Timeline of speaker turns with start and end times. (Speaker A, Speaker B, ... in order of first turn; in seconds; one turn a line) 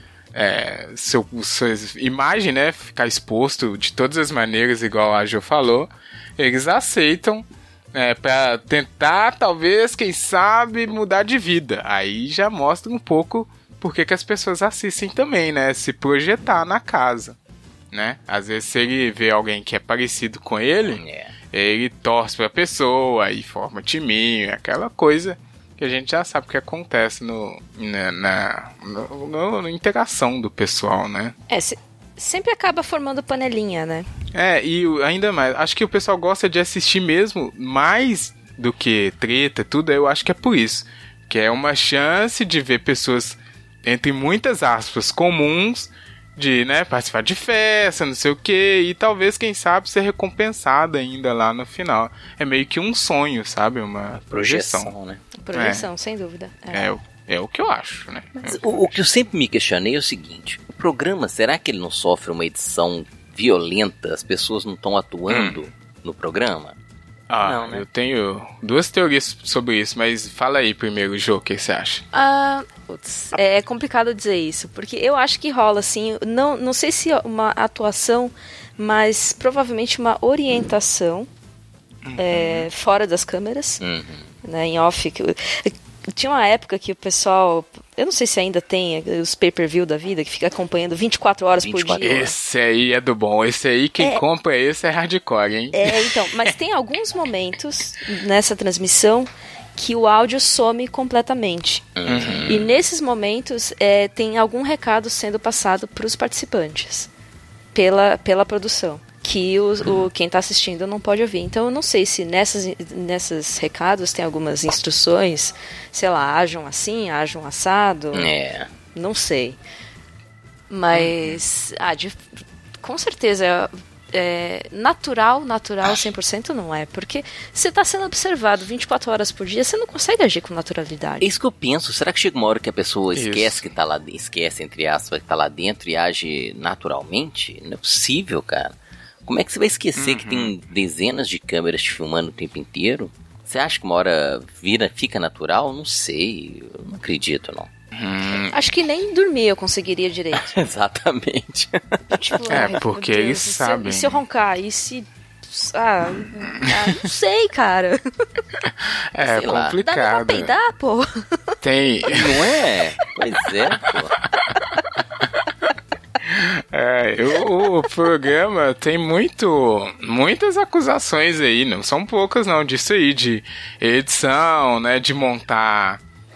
Speaker A: 0.3-17.4
Speaker A: 17.9-31.3
Speaker B: 20.8-21.3
Speaker C: 31.5-34.0
Speaker A: 34.3-54.9
Speaker B: 54.3-55.2
Speaker C: 55.4-56.9
Speaker A: 55.5-55.9
Speaker A: 56.7-59.0
Speaker B: 58.4-66.7
Speaker A: 65.3-65.6
Speaker A: 67.3-72.0
Speaker B: 67.4-67.8
Speaker C: 72.1-81.3
Speaker A: 82.0-82.7
Speaker C: 82.2-83.8
Speaker B: 83.8-84.2
Speaker C: 84.4-92.3
Speaker B: 91.6-92.3
Speaker A: 92.0-96.5
Speaker C: 95.7-101.8
Speaker B: 102.0-102.7
Speaker A: 102.0-102.6
Speaker C: 102.5-107.1
Speaker C: 107.7-118.3
Speaker B: 118.1-118.7
Speaker C: 118.9-119.6
Speaker C: 120.7-122.2
Speaker C: 122.8-131.3
Speaker B: 131.2-138.7
Speaker A: 133.1-133.6
Speaker B: 139.2-147.7
Speaker A: 139.9-140.5
Speaker A: 147.9-148.6
Speaker C: 148.5-150.6
Speaker B: 150.3-152.8
Speaker C: 152.1-158.0
Speaker A: 152.5-154.2
Speaker A: 156.6-156.9
Speaker A: 158.8-160.5
Speaker B: 159.2-159.8
Speaker C: 159.4-161.1
Speaker A: 161.6-162.4
Speaker B: 162.1-164.2
Speaker A: 164.6-164.8
Speaker A: 166.2-176.0